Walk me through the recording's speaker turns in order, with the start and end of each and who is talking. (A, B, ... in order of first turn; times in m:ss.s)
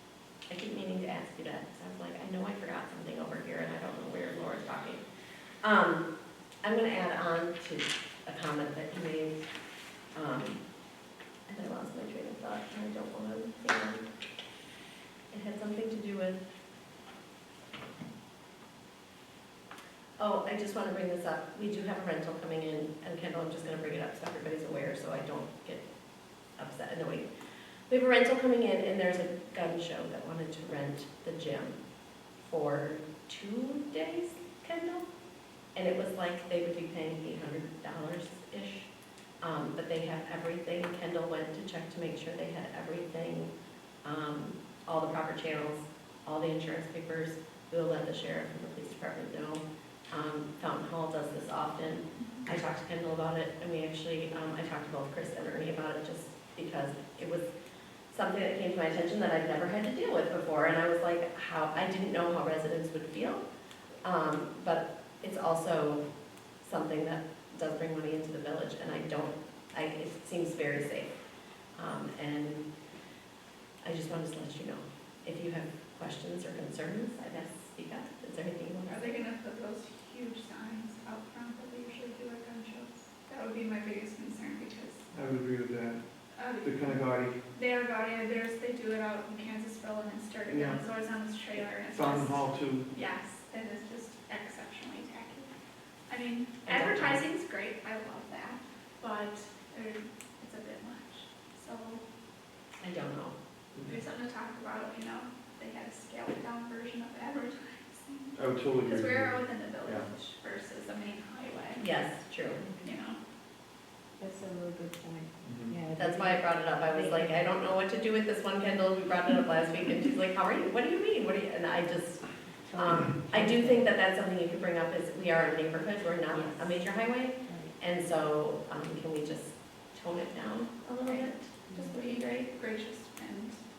0:00.5-0:05.0 A
0:05.6-0:06.1 A
0:06.6-0:09.4 A
0:10.1-0:10.6 A
0:11.5-0:14.0 A
0:15.3-0:16.4 A
0:20.2-0:25.8 A
0:26.6-0:27.3 A
0:27.9-0:31.8 A
0:32.4-0:35.0 A
0:35.8-0:38.9 A
0:39.4-0:43.5 A
0:44.0-0:57.5 A
0:58.1-1:03.4 A
1:04.0-1:06.0 A
1:06.6-1:11.1 A
1:11.8-1:12.6 A
1:13.8-1:19.2 A
1:18.9-1:25.1 B
1:25.1-1:26.0 C
1:26.4-1:27.0 B
1:26.6-1:27.3 C
1:27.5-1:35.5 B
1:30.5-1:30.8 C
1:31.7-1:32.8 C
1:36.1-1:42.0 B
1:36.6-1:37.2 A
1:42.8-1:43.3 A
1:43.8-1:51.8 B
1:48.3-1:50.0 C
1:51.8-1:52.6 A
1:52.5-1:52.8 D
1:52.8-1:53.2 B
1:54.2-1:57.5 D
1:55.4-1:55.7 C
1:56.0-2:02.2 A
2:02.7-2:03.9 D
2:02.8-2:11.5 A
2:06.3-2:06.8 D
2:07.4-2:07.7 D
2:11.0-2:13.6 B
2:11.7-2:11.9 D